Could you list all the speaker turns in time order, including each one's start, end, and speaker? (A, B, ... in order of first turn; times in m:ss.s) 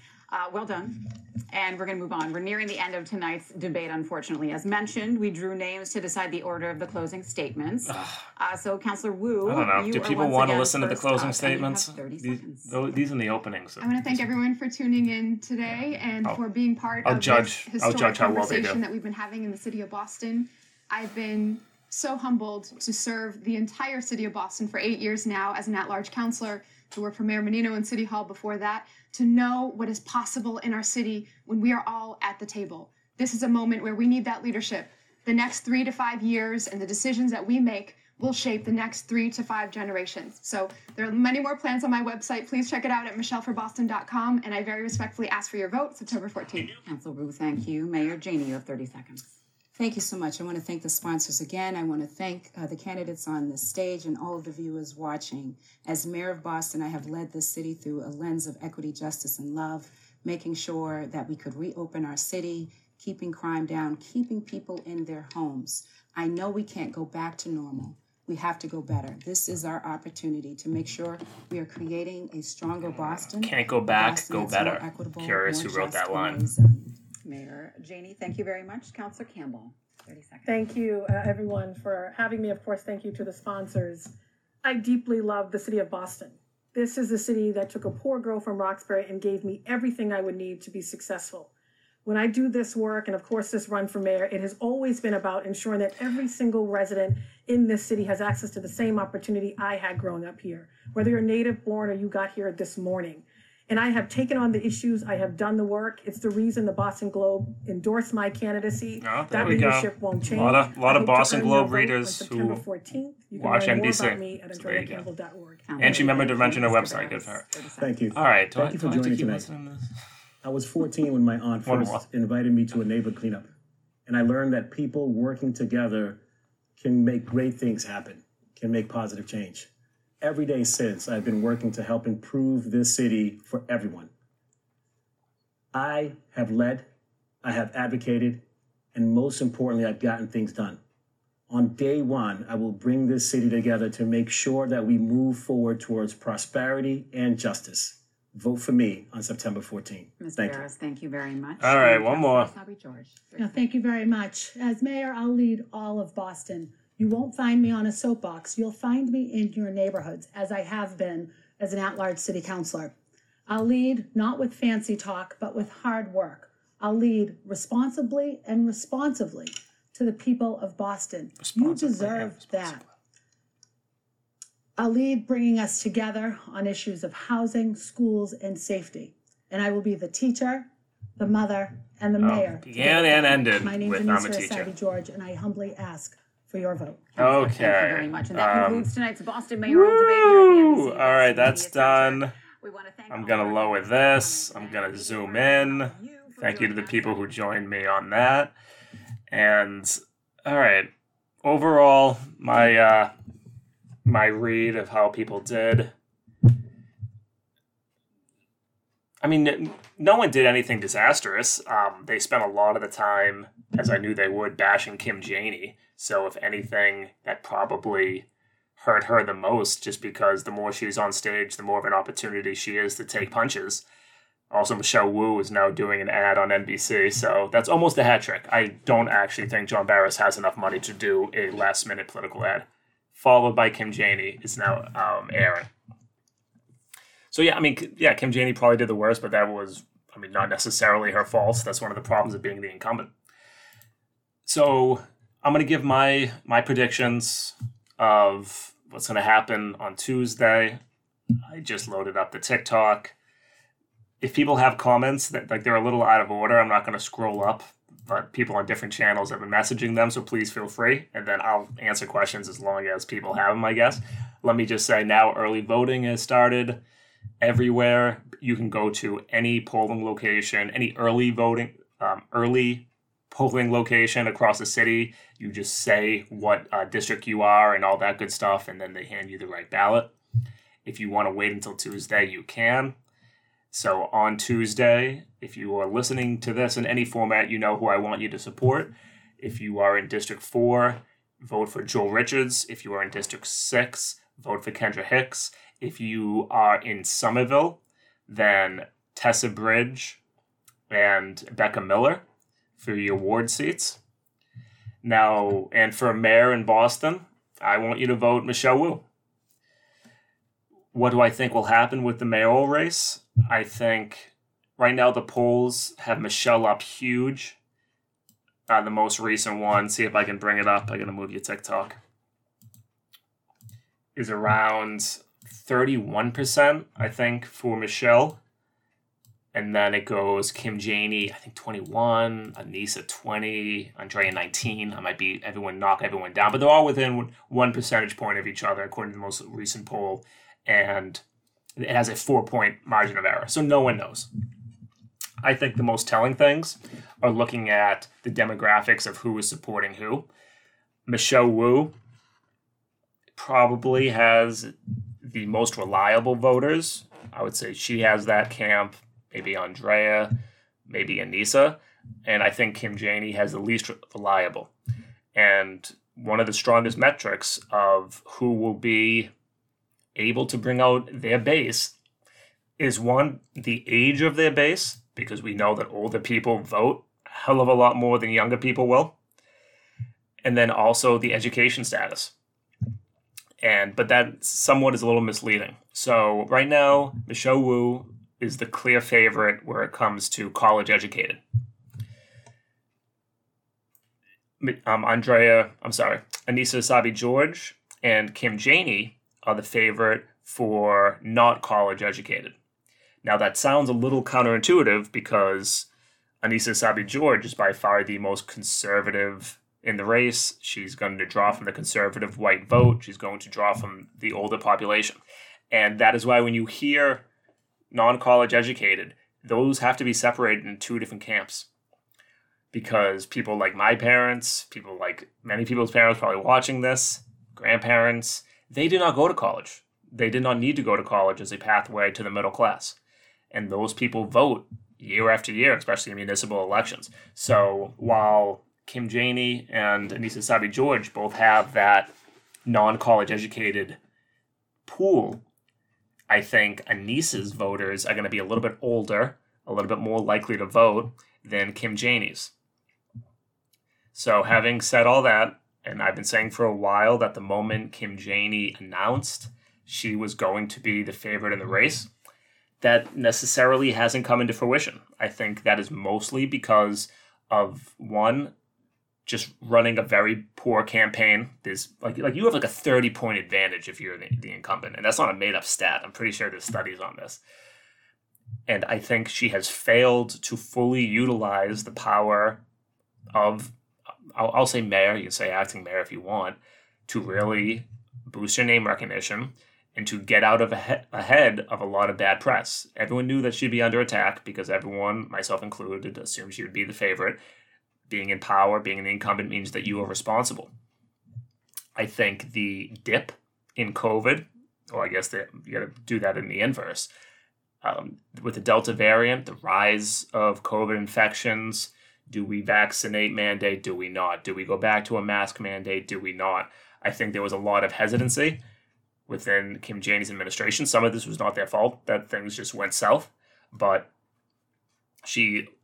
0:00.3-0:12.7 A
0:07.9-0:08.3 B
0:09.4-0:14.3 B
0:13.8-0:46.8 C
0:17.0-0:18.8 B
0:46.8-0:49.3 A
0:49.8-1:17.0 D
1:12.9-1:16.5 B
1:17.2-1:20.5 A
1:20.4-1:24.1 E
1:24.6-1:31.5 E
1:32.0-1:55.9 E
1:49.0-1:52.6 B
1:53.4-1:55.0 B
1:55.6-1:58.1 A
1:55.8-1:57.4 B
1:57.8-1:59.5 F
1:58.1-1:59.9 B
2:00.4-2:03.5 F
2:01.7-2:02.0 B
2:04.1-2:06.2 F
2:06.8-2:09.7 F
2:10.2-2:14.1 F
2:15.7-2:16.9 F
2:17.4-2:20.8 F
2:21.5-2:30.6 F
2:30.2-2:33.7 A
2:31.6-2:32.5 B
2:33.4-2:42.9 G
2:43.5-2:52.8 G
2:51.4-2:52.8 B
2:54.8-3:07.1 G
3:02.2-3:04.7 B
3:07.2-3:17.3 A
3:07.2-3:08.9 B
3:09.7-3:12.3 B
3:13.1-3:18.5 B
3:19.3-3:20.9 B
3:21.4-3:23.1 B
3:24.0-3:25.9 B
3:29.2-3:38.3 B
3:38.8-3:43.8 B
3:44.5-3:55.7 B
3:57.3-4:03.1 B
4:04.5-4:10.8 B
4:11.5-4:13.1 B
4:14.2-4:26.8 B
4:27.4-4:40.1 B
4:40.8-4:43.0 B
4:43.7-5:00.2 B
5:00.9-5:02.2 B
5:02.8-5:04.0 B
5:05.0-5:09.0 B
5:10.9-5:17.6 B
5:18.7-5:22.0 B
5:24.2-5:28.4 B
5:29.5-5:41.2 B
5:41.8-5:44.3 B
5:45.4-5:50.3 B
5:51.1-5:51.9 B
5:53.4-6:00.4 B
6:00.9-6:04.7 B
6:05.4-6:09.3 B
6:10.2-6:12.0 B
6:12.8-6:19.2 B
6:20.4-6:22.3 B
6:23.6-6:31.4 B
6:34.6-6:42.6 B
6:43.2-6:45.9 B
6:46.4-6:55.2 B
6:55.7-6:57.2 B
6:57.9-7:01.7 B
7:02.7-7:13.0 B
7:13.5-7:22.1 B
7:22.7-7:24.0 B
7:24.9-7:25.4 B
7:26.3-7:32.5 B
7:34.1-7:42.1 B
7:42.8-7:48.5 B
7:49.3-7:57.4 B
7:58.7-8:02.6 B
8:03.3-8:03.7 B
8:04.4-8:17.4 B
8:18.1-8:20.7 B
8:22.0-8:27.1 B
8:27.8-8:38.6 B
8:39.3-8:44.1 B
8:45.2-8:45.7 B